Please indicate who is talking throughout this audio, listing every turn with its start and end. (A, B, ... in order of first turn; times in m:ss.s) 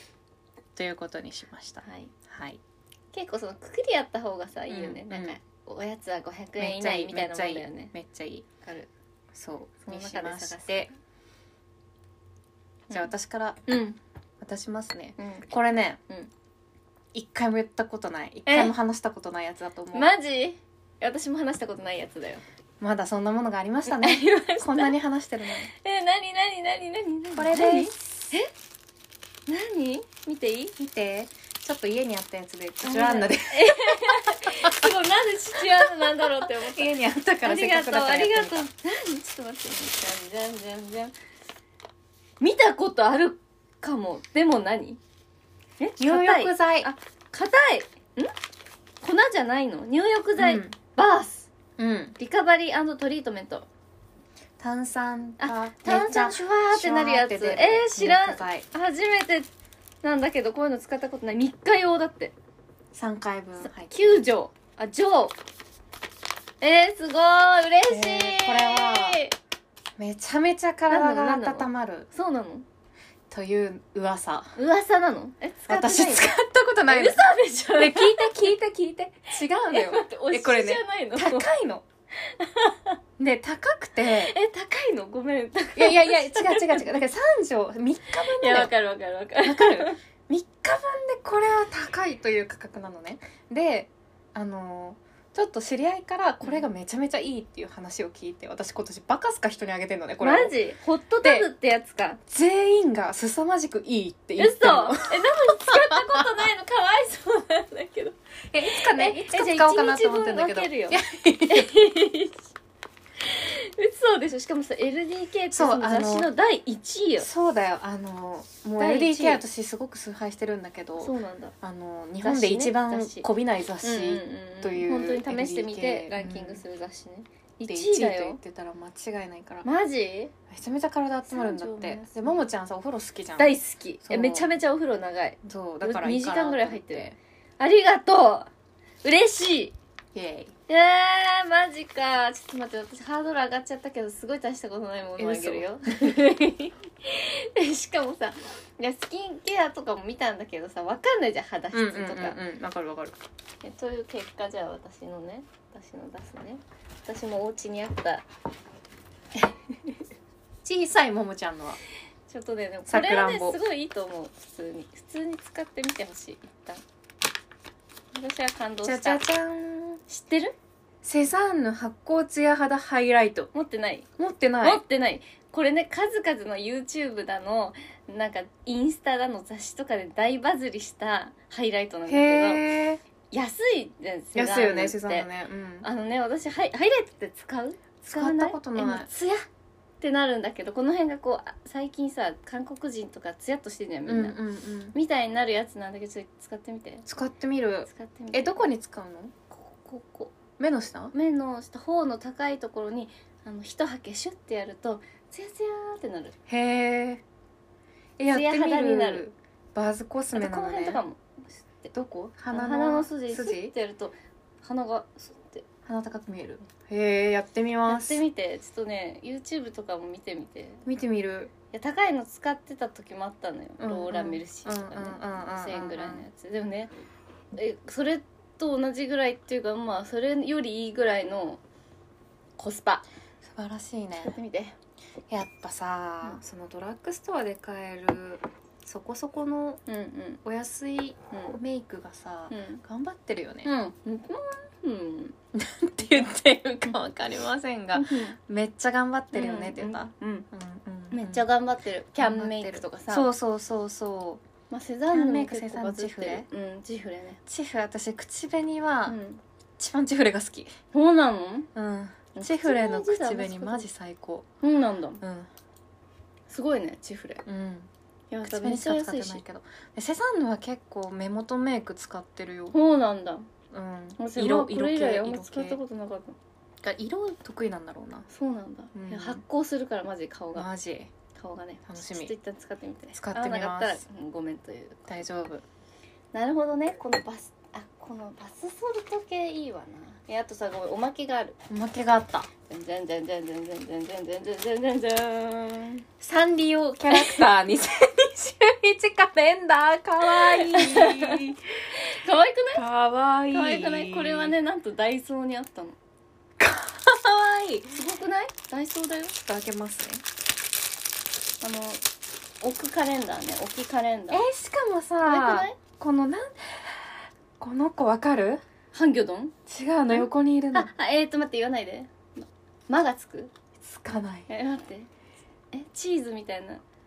0:00.8-0:02.6 A
0:01.8-0:02.1 B
0:03.1-0:07.9 B
0:04.7-0:05.4 A
0:06.6-0:08.5 A
0:08.6-0:08.9 B
0:09.3-0:10.9 A
0:09.8-0:10.9 B
0:12.9-0:13.8 A
0:13.7-0:14.0 B
0:14.4-0:16.0 A
0:15.2-0:15.5 B
0:17.1-0:20.1 A
0:18.5-0:18.7 B
0:19.9-0:22.4 B
0:22.8-0:25.7 A
0:23.9-0:25.0 B
0:25.6-0:28.5 B
0:27.3-0:28.4 A
0:29.5-0:30.7 B
0:30.8-0:34.9 A
0:32.8-0:41.2 B
0:35.7-0:38.7 A
0:42.4-0:45.0 B
0:45.8-0:48.3 B
0:46.0-0:46.9 A
0:49.0-0:51.5 B
0:50.4-0:50.8 A
0:51.8-0:52.2 A
0:52.2-0:53.7 B
0:54.6-0:58.7 A
0:55.4-0:59.5 B
1:00.0-1:02.4 B
1:02.9-1:04.0 A
1:03.6-1:05.4 B
1:06.6-1:09.3 B
1:07.9-1:09.2 A
1:10.0-1:12.1 A
1:10.9-1:12.7 B
1:13.3-1:14.5 A
1:14.6-1:16.3 B
1:15.7-1:21.8 A
1:16.9-1:18.5 B
1:19.5-1:21.5 B
1:22.3-1:23.0 B
1:23.2-1:24.3 A
1:24.0-1:26.9 B
1:25.8-1:28.7 A
1:28.2-1:30.0 B
1:29.4-1:40.6 A
1:40.2-1:42.2 B
1:41.2-1:41.5 A
1:42.3-1:46.3 A
1:44.4-1:52.5 B
1:48.5-1:51.7 A
1:53.2-1:57.3 B
1:55.5-1:56.3 A
1:57.2-2:06.6 A
1:58.8-1:59.4 B
2:01.0-2:01.5 B
2:02.2-2:03.3 B
2:03.8-2:08.4 B
2:07.7-2:09.7 A
2:09.6-2:10.3 B
2:10.5-2:14.6 A
2:11.3-2:12.4 B
2:13.4-2:18.5 B
2:15.4-2:17.2 A
2:19.0-2:19.8 B
2:20.1-2:20.5 A
2:20.7-2:32.4 B
2:25.2-2:26.3 A
2:31.7-2:33.2 A
2:33.6-2:38.2 B
2:39.4-2:40.0 B
2:40.6-2:41.8 A
2:42.3-2:46.8 B
2:42.9-2:43.6 A
2:48.1-2:49.3 B
2:48.8-2:50.0 A
2:50.1-2:50.6 B
2:51.0-2:53.5 A
2:53.5-2:54.1 B
2:54.2-2:54.8 A
2:54.6-3:02.7 B
3:02.1-3:03.0 A
3:03.3-3:05.3 B
3:04.4-3:05.9 A
3:05.8-3:09.5 B
3:08.1-3:09.1 A
3:10.0-3:14.4 B
3:14.1-3:15.0 A
3:14.9-3:17.0 B
3:17.1-3:19.3 A
3:17.9-3:18.7 B
3:19.5-3:20.4 B
3:20.6-3:21.1 A
3:21.1-3:26.3 B
3:26.5-3:27.2 A
3:28.2-3:31.0 A
3:28.3-3:29.3 B
3:30.3-3:31.9 B
3:31.9-3:33.7 A
3:32.5-3:35.6 B
3:35.8-3:38.2 A
3:37.9-3:40.8 B
3:40.8-3:41.5 A
3:41.7-3:46.9 B
3:43.8-3:46.3 A
3:47.5-3:51.6 B
3:52.6-3:53.0 B
3:53.4-3:54.4 A
3:54.2-3:54.8 B
3:55.3-3:59.8 A
3:59.9-4:00.4 B
4:00.4-4:03.7 A
4:01.3-4:01.6 B
4:02.5-4:02.8 B
4:03.6-4:05.4 B
4:05.5-4:11.5 A
4:07.9-4:08.4 B
4:09.3-4:10.5 B
4:11.1-4:13.3 B
4:12.2-4:14.4 A
4:14.7-4:17.4 B
4:15.1-4:16.5 A
4:17.5-4:19.2 A
4:19.1-4:19.4 B
4:19.8-4:20.7 A
4:20.9-4:21.7 B
4:21.8-4:24.5 A
4:22.4-4:23.9 B
4:24.6-4:25.2 B
4:25.2-4:25.5 A
4:26.5-4:27.4 B
4:27.5-4:27.9 A
4:28.3-4:29.4 B
4:28.4-4:32.8 A
4:32.7-4:33.5 B
4:33.7-4:35.8 A
4:34.2-4:36.4 B
4:36.8-4:38.3 A
4:38.3-4:40.7 B
4:38.9-4:39.4 A
4:40.6-4:41.1 A
4:41.4-4:45.3 B
4:41.9-4:42.3 A
4:43.1-4:44.0 A
4:45.1-4:45.6 A
4:46.3-4:51.6 B
4:51.7-4:52.5 A
4:52.7-4:56.0 B
4:56.2-5:01.6 A
4:57.1-4:57.4 B
5:00.2-5:01.4 B
5:02.0-5:02.9 B
5:02.7-5:04.6 A
5:03.5-5:06.0 B
5:06.6-5:08.0 A
5:07.9-5:09.4 B
5:09.4-5:10.2 A
5:11.6-5:12.0 B
5:12.6-5:14.4 B
5:14.3-5:18.6 A
5:15.2-5:15.8 B
5:18.9-5:19.6 B
5:19.7-5:20.9 A
5:20.1-5:23.5 B
5:23.8-5:24.5 A
5:24.5-5:25.1 B
5:25.7-5:26.8 B